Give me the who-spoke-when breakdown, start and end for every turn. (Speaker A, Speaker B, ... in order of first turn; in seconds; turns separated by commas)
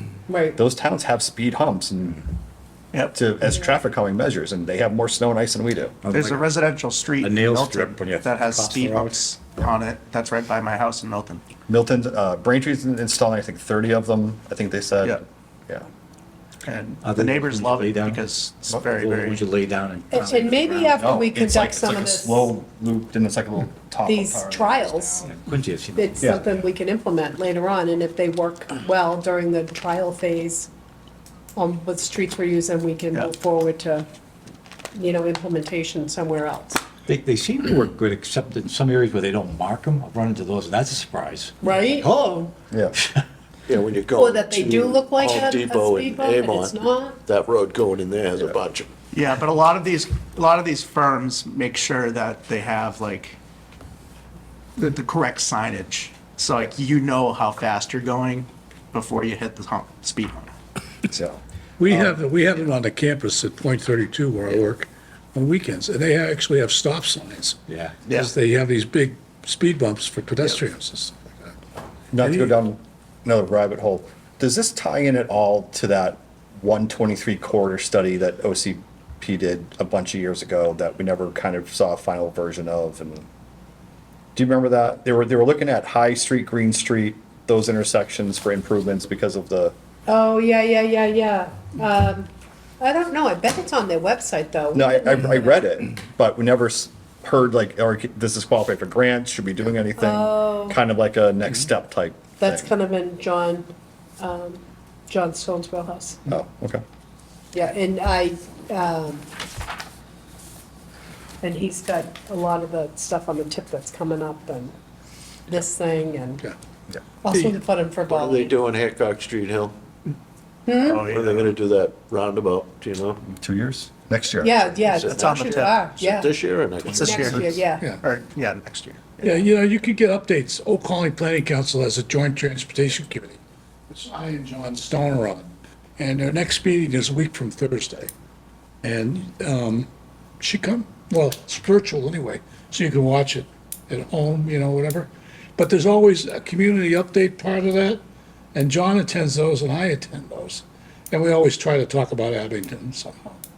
Speaker A: 0.3-0.6, Speaker B: 0.5-2.3, Speaker B: 3.1-6.0, Speaker C: 6.0-6.4, Speaker D: 6.1-11.4, Speaker C: 7.2-9.1, Speaker B: 11.7-15.9, Speaker D: 16.6-19.5, Speaker C: 17.0-18.2, Speaker C: 18.9-21.0, Speaker A: 20.1-22.5, Speaker B: 20.8-25.4, Speaker A: 24.1-25.3, Speaker C: 25.3-26.3, Speaker A: 25.9-30.7, Speaker A: 31.6-34.1, Speaker A: 34.9-36.8, Speaker C: 37.1-42.5, Speaker A: 41.6-42.1, Speaker B: 42.7-43.0, Speaker E: 43.7-48.9, Speaker A: 44.2-47.2, Speaker D: 49.1-53.4, Speaker D: 54.8-60.5, Speaker B: 61.1-62.1, Speaker F: 61.8-71.5, Speaker D: 68.1-68.3, Speaker B: 72.1-83.2, Speaker F: 72.2-72.5, Speaker B: 84.3-89.8, Speaker A: 90.1-95.5, Speaker B: 94.7-102.7, Speaker A: 100.0-100.8, Speaker A: 102.4-106.2, Speaker B: 106.3-106.8, Speaker A: 107.5-109.3, Speaker A: 111.4-114.7, Speaker A: 115.5-116.5, Speaker A: 117.2-118.5, Speaker E: 118.1-119.8, Speaker A: 120.7-121.0, Speaker D: 120.8-121.5, Speaker E: 121.1-123.2, Speaker B: 123.3-124.8, Speaker A: 124.4-126.3, Speaker E: 124.8-127.5, Speaker D: 125.1-125.8, Speaker A: 126.9-127.8, Speaker D: 126.9-129.3, Speaker F: 129.2-133.4, Speaker F: 133.9-138.1, Speaker F: 138.8-139.9, Speaker F: 140.4-148.0, Speaker F: 148.5-153.4